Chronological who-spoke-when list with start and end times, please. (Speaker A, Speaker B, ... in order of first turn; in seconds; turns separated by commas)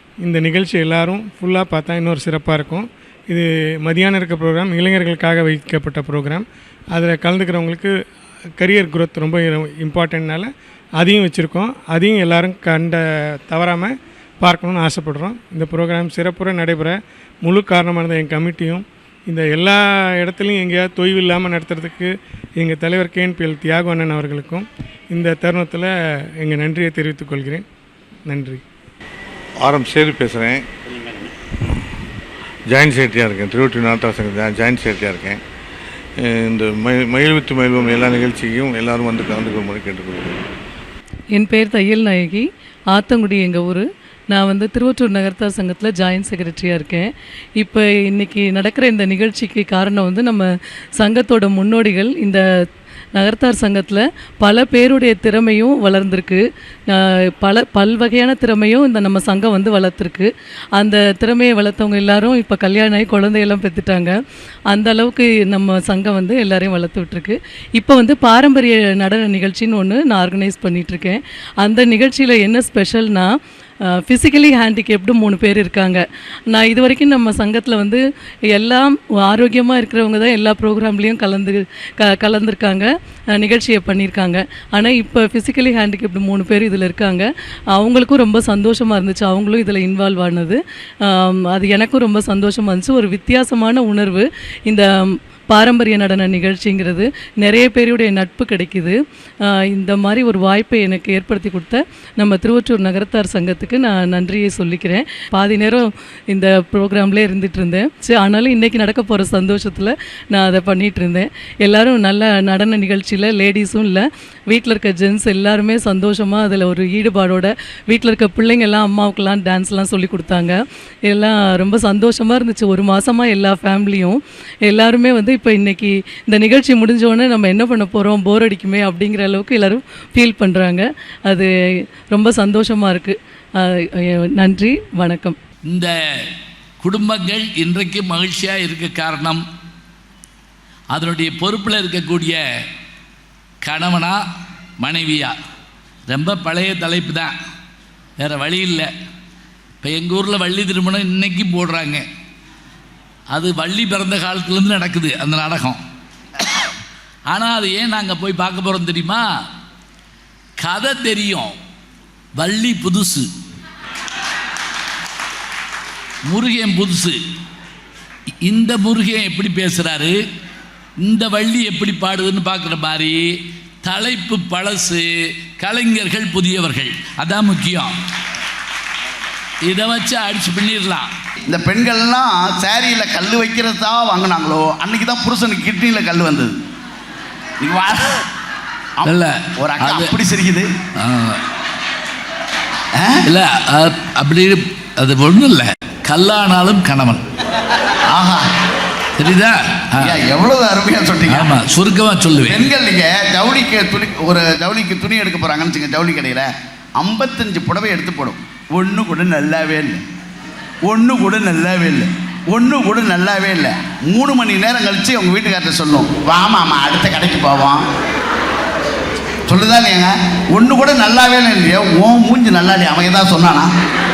Speaker A: 0.2-3.4, Speaker A: 3.9-6.4, Speaker A: 7.0-7.8, Speaker A: 8.6-10.4, Speaker A: 11.0-12.9, Speaker A: 13.5-13.9, Speaker A: 14.4-16.9, Speaker A: 17.4-19.6, Speaker A: 20.2-22.1, Speaker A: 22.6-24.6, Speaker A: 25.1-25.8, Speaker A: 26.4-27.6, Speaker A: 28.3-28.6, Speaker B: 29.6-30.7, Speaker B: 32.7-35.4, Speaker B: 36.2-40.4, Speaker C: 41.3-52.4, Speaker C: 53.1-64.2, Speaker C: 64.7-73.3, Speaker C: 73.9-131.5, Speaker C: 132.1-135.3, Speaker D: 135.7-136.3, Speaker D: 136.8-139.4, Speaker D: 140.9-142.4, Speaker D: 143.6-144.2, Speaker D: 144.8-145.3, Speaker D: 146.1-147.3, Speaker D: 148.2-148.9, Speaker D: 149.8-152.1, Speaker D: 153.3-155.8, Speaker D: 157.3-159.3, Speaker D: 160.6-161.6, Speaker D: 162.3-163.3, Speaker D: 166.2-167.2, Speaker D: 168.4-170.2, Speaker D: 171.0-177.9, Speaker D: 179.6-181.1, Speaker E: 181.4-186.5, Speaker E: 187.6-188.2, Speaker E: 189.0-190.7, Speaker D: 189.0-190.2, Speaker D: 191.0-191.4, Speaker E: 192.9-193.3, Speaker D: 193.2-197.2, Speaker E: 198.1-198.4, Speaker D: 199.2-200.2, Speaker E: 200.0-201.6, Speaker D: 201.3-202.7, Speaker E: 202.4-210.0, Speaker E: 210.8-217.8, Speaker E: 219.5-223.7